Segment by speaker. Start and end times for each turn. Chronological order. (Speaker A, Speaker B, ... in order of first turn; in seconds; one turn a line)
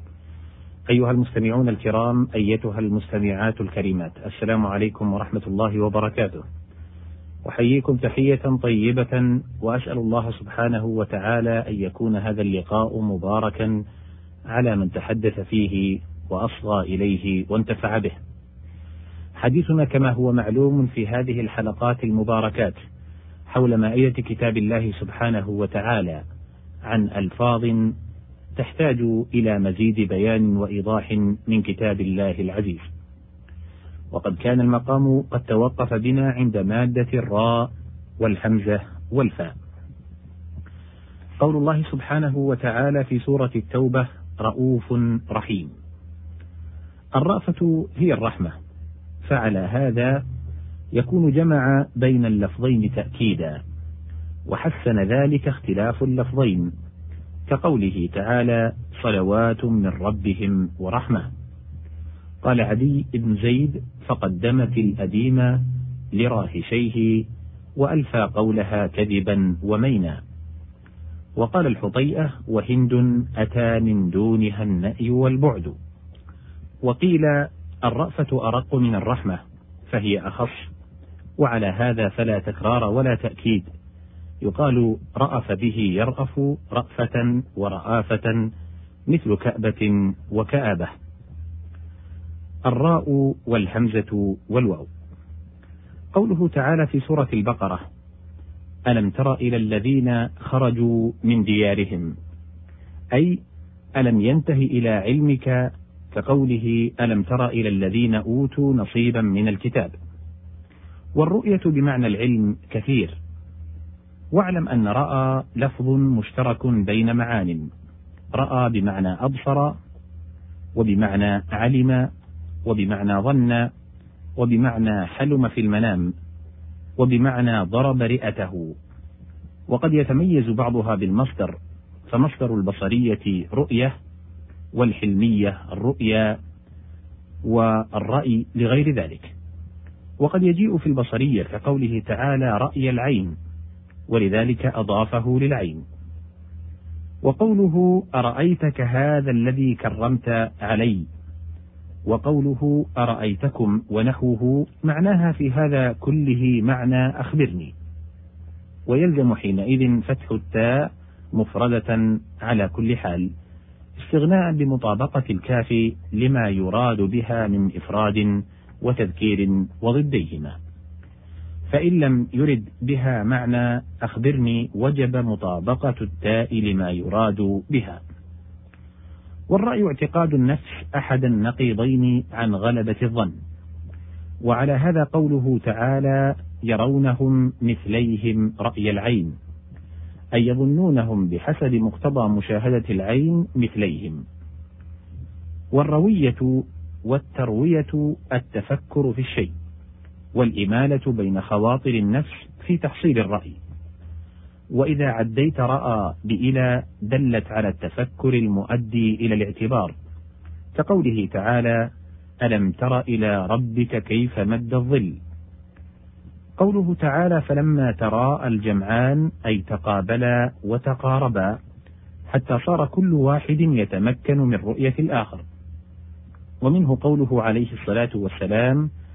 Speaker A: 0.9-6.4
Speaker A: 7.4-13.8
Speaker A: 14.5-18.2
Speaker A: 19.4-22.8
Speaker A: 23.5-26.2
Speaker A: 26.9-27.9
Speaker A: 28.6-32.9
Speaker A: 34.1-39.5
Speaker A: 41.4-45.7
Speaker A: 47.2-48.5
Speaker A: 49.2-50.2
Speaker A: 50.9-53.6
Speaker A: 54.5-56.7
Speaker A: 57.5-61.3
Speaker A: 62.4-65.6
Speaker A: 66.1-67.2
Speaker A: 67.8-70.2
Speaker A: 71.4-75.8
Speaker A: 76.8-80.7
Speaker A: 81.4-83.7
Speaker A: 84.4-88.4
Speaker A: 89.1-90.9
Speaker A: 92.7-94.9
Speaker A: 96.1-97.8
Speaker A: 98.9-102.1
Speaker A: 104.0-109.9
Speaker A: 111.2-113.2
Speaker A: 114.3-117.7
Speaker A: 118.3-119.8
Speaker A: 120.8-122.1
Speaker A: 122.7-123.7
Speaker A: 124.4-126.1
Speaker A: 127.0-128.8
Speaker A: 129.7-131.6
Speaker A: 132.1-133.9
Speaker A: 134.7-136.4
Speaker A: 137.4-139.3
Speaker A: 140.2-143.3
Speaker A: 144.1-145.8
Speaker A: 147.2-151.1
Speaker A: 152.1-157.7
Speaker A: 158.9-163.3
Speaker A: 164.0-170.6
Speaker A: 171.7-178.0
Speaker A: 179.5-183.3
Speaker A: 184.4-189.3
Speaker A: 190.3-194.2
Speaker A: 195.7-199.5
Speaker A: 200.3-203.6
Speaker A: 204.8-209.9
Speaker A: 210.8-211.9
Speaker A: 212.4-215.2
Speaker A: 216.6-221.6
Speaker A: 222.3-225.4
Speaker A: 226.6-228.8